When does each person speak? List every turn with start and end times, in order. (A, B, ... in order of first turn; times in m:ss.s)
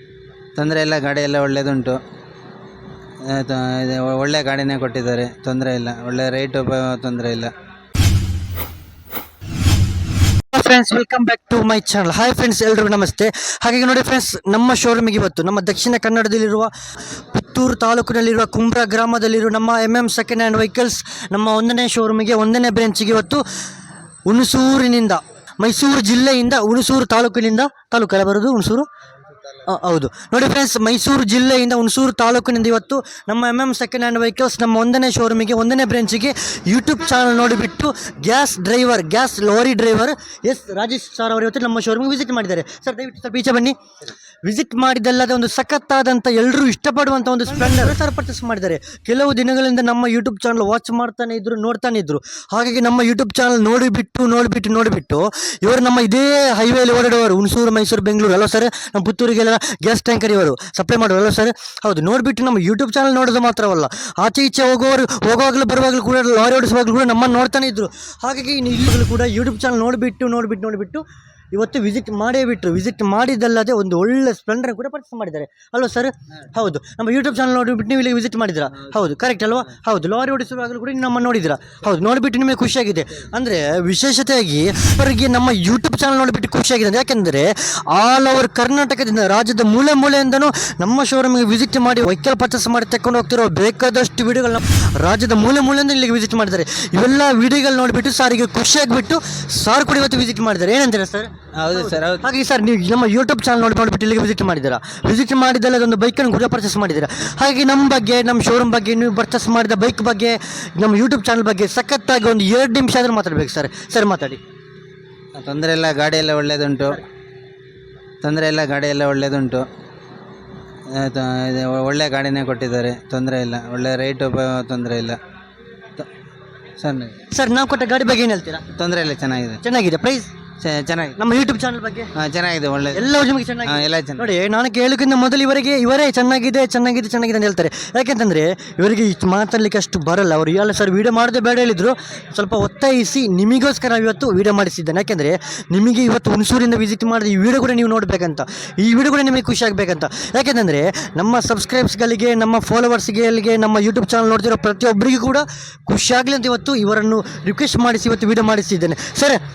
0:00.6-0:02.0 A
0:03.2-0:07.5 A
0:10.5-0:16.7 B
0:17.3-0:23.4 B
0:24.3-0:28.9 B
0:29.6-0:43.7 B
0:44.4-1:54.4 B
1:41.6-1:42.3 A
1:55.4-1:57.0 A
1:58.2-1:59.7 A
2:00.9-2:05.2 A
2:06.8-2:07.2 A
2:07.3-2:08.6 B
2:08.7-2:09.6 A
2:09.6-2:10.3 B
2:10.6-2:11.2 A
2:11.2-2:12.1 B
2:12.1-2:13.1 A
2:12.9-2:39.4 B
2:13.6-2:14.3 A